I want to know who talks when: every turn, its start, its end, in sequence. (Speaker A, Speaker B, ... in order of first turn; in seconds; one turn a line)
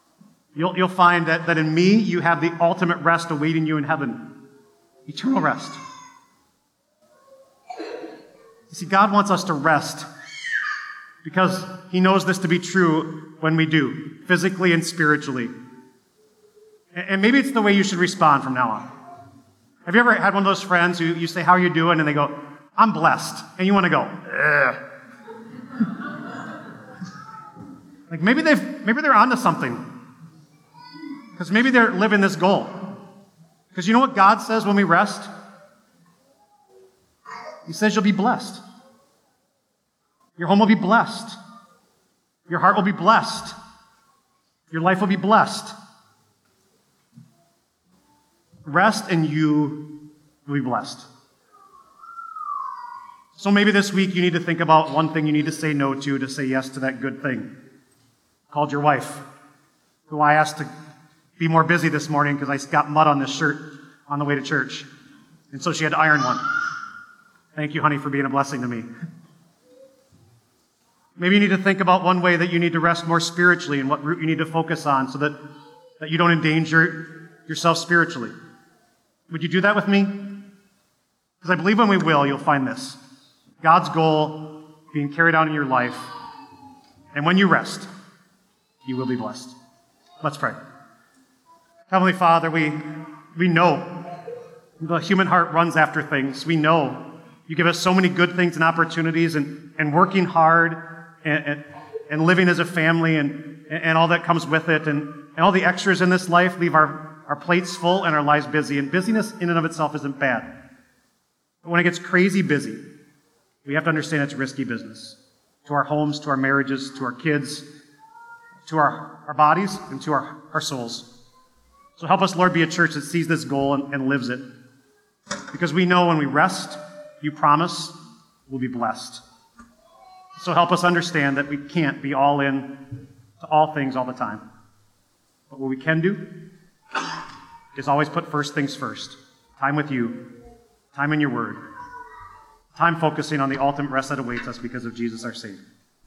Speaker A: 0.6-4.2
Speaker A: 5.1-5.8
Speaker A: 8.7-10.1
Speaker A: 11.2-15.5
Speaker A: 16.9-18.9
Speaker A: 19.9-24.8
Speaker A: 28.1-29.8
Speaker A: 31.4-32.9
Speaker A: 33.7-35.3
Speaker A: 37.7-38.6
Speaker A: 40.4-41.4
Speaker A: 42.5-43.5
Speaker A: 44.7-45.8
Speaker A: 48.6-49.9
Speaker A: 50.5-51.1
Speaker A: 53.4-57.5
Speaker A: 58.5-59.2
Speaker A: 60.1-60.7
Speaker A: 61.4-64.9
Speaker A: 65.5-66.4
Speaker A: 67.5-68.9
Speaker A: 71.2-75.4
Speaker A: 76.0-78.3
Speaker A: 79.3-80.4
Speaker A: 81.4-83.0
Speaker A: 83.6-86.1
Speaker A: 87.1-87.9
Speaker A: 88.8-89.5
Speaker A: 90.2-90.6
Speaker A: 91.9-92.8
Speaker A: 93.3-94.0
Speaker A: 94.8-110.5
Speaker A: 111.6-112.8
Speaker A: 113.7-117.7
Speaker A: 118.7-121.1
Speaker A: 122.0-124.4
Speaker A: 125.5-128.0
Speaker A: 128.5-129.2
Speaker A: 130.4-132.7
Speaker A: 133.4-134.4
Speaker A: 135.5-136.2
Speaker A: 137.8-140.2
Speaker A: 140.9-141.6
Speaker A: 142.8-145.6